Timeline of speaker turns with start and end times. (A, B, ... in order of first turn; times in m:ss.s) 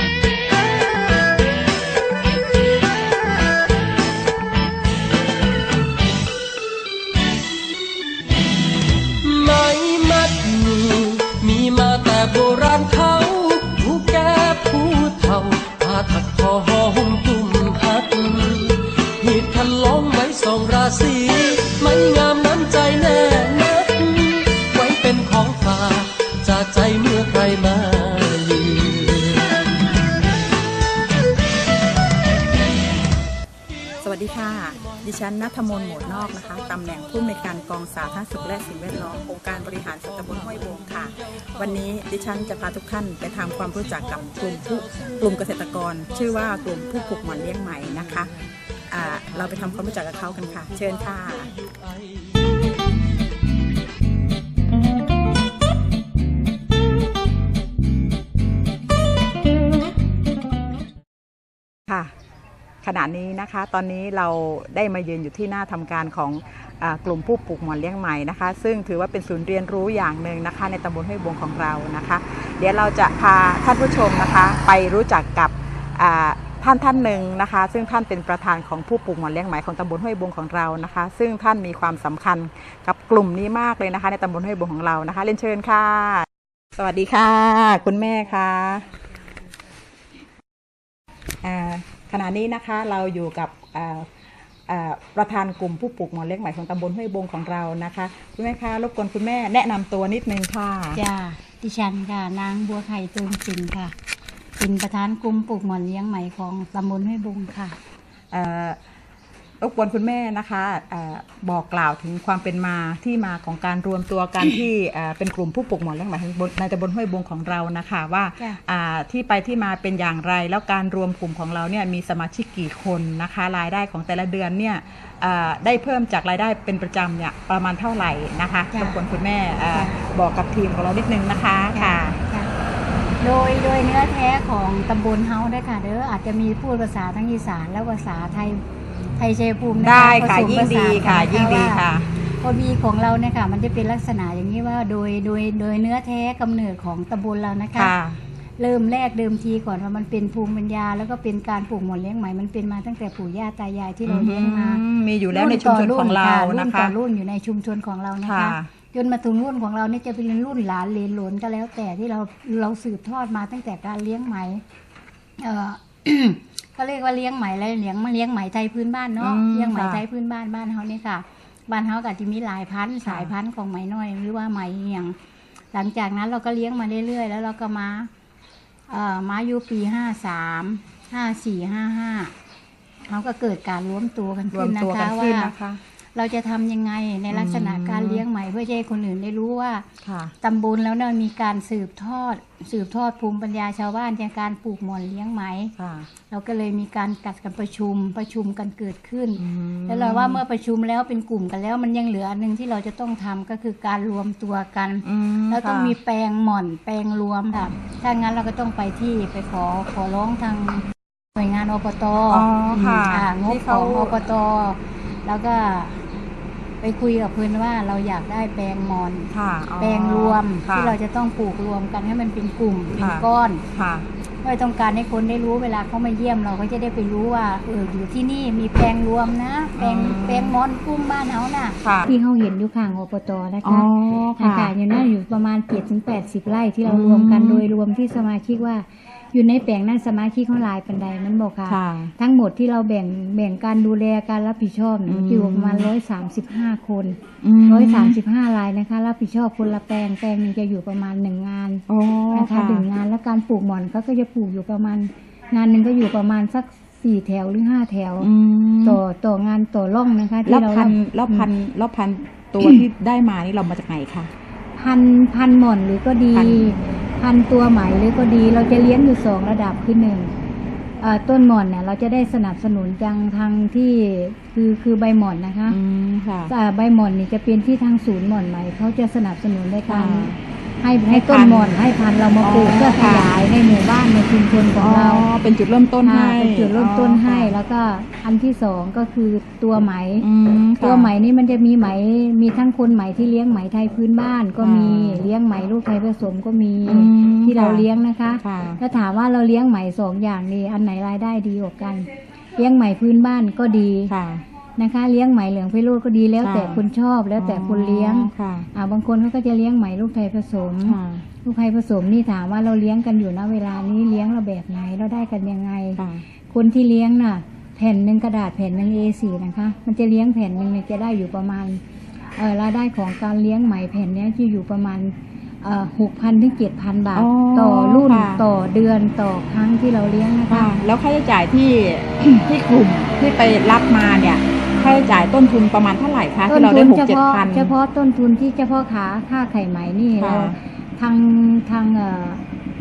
0:09.2-0:29.8 A
0:34.0-0:48.3 B
0:48.9-0:51.5 B
1:01.9-1:02.1 B
1:02.8-1:28.9 B
1:31.4-1:41.0 B
1:41.0-1:44.0 C
1:44.6-1:47.8 C
1:48.3-1:48.8 B
1:49.6-2:12.2 B
2:08.7-2:09.0 C
2:11.7-2:12.5 C
2:13.2-2:18.6 C
2:19.2-2:27.9 C
2:19.8-2:22.1 B
2:27.8-2:28.2 B
2:28.6-2:44.6 C
2:34.1-2:36.9 B
2:38.2-2:38.7 B
2:45.4-2:55.2 C
2:49.2-2:50.0 B
2:53.0-2:53.3 B
2:55.7-2:58.1 C
2:58.9-3:02.3 C
3:03.1-3:05.5 C
3:04.5-3:05.8 B
3:06.2-3:09.9 C
3:07.3-3:08.2 B
3:10.0-3:10.4 B
3:10.4-3:15.7 C
3:15.8-3:16.1 B
3:16.3-3:36.0 C
3:19.4-3:20.4 B
3:25.0-3:26.0 B
3:32.3-3:34.3 B
3:36.8-3:43.6 C
3:39.3-3:41.0 B
3:43.0-3:44.1 B
3:44.4-4:18.3 C
3:49.8-3:50.6 B
3:51.8-3:52.1 B
3:53.6-3:54.7 B
3:56.8-3:57.6 B
4:01.7-4:02.1 B
4:05.1-4:05.9 B
4:07.4-4:08.2 B
4:11.9-4:12.9 B
4:18.2-4:19.0 B
4:18.8-4:21.5 C
4:20.4-4:24.3 B
4:24.8-4:30.3 C
4:26.3-4:27.0 B
4:31.0-4:35.8 C
4:35.7-4:36.5 B
4:36.5-4:45.3 C
4:39.9-4:40.4 B
4:41.1-4:41.8 B
4:42.4-4:43.4 B
4:44.8-4:47.5 B
4:46.0-4:50.3 C
4:50.2-4:51.1 B
4:50.8-5:04.1 C
4:54.6-4:55.2 B
4:56.8-4:57.8 B
4:58.4-4:58.8 B
5:04.1-5:04.4 B
5:04.8-5:21.8 C
5:06.4-5:06.8 B
5:07.4-5:08.7 B
5:10.8-5:11.3 B
5:16.0-5:16.2 B
5:22.4-5:30.8 C
5:27.1-5:28.4 B
5:30.5-5:37.7 B
5:36.5-5:42.4 C
5:40.2-5:40.6 B